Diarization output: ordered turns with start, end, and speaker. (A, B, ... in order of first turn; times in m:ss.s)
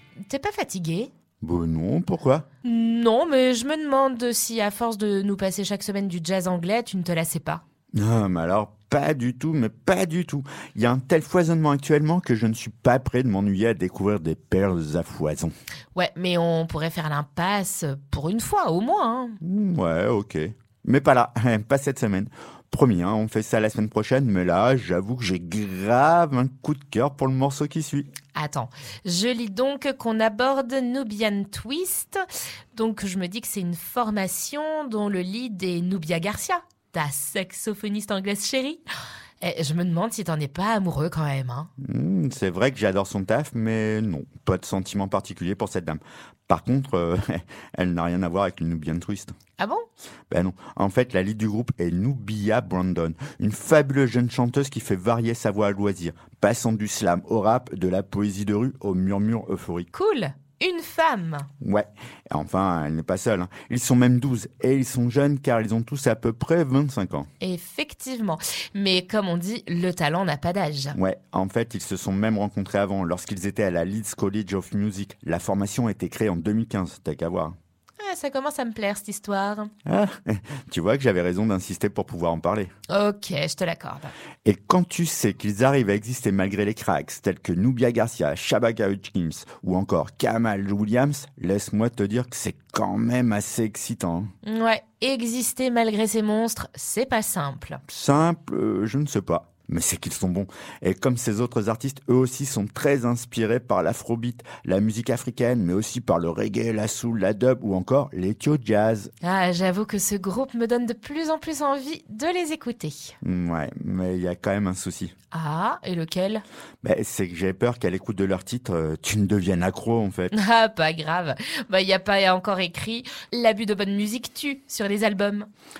0:00.3-0:01.1 A
0:01.4-0:02.5 B
0:02.6-0:07.6 A
0:07.9-0:15.5 B
0:16.0-0:19.4 A
0:19.4-0:28.1 B
0:28.4-0:38.8 A
0:39.4-0:41.7 A
0:41.8-0:49.4 B
0:49.6-0:49.8 A
0:50.3-0:59.9 B
0:59.9-1:01.5 A
1:01.6-1:07.3 B
1:07.4-1:11.0 A
1:11.0-1:17.6 B
1:18.0-1:19.7 A
1:19.8-1:22.7 B
1:22.9-1:24.1 A
1:24.4-1:34.3 B
1:34.4-1:37.8 A
1:37.9-1:49.1 B
1:49.2-1:53.2 A
1:53.2-1:55.1 B
1:55.3-1:56.4 A
1:56.8-2:00.3 B
2:00.3-2:05.5 A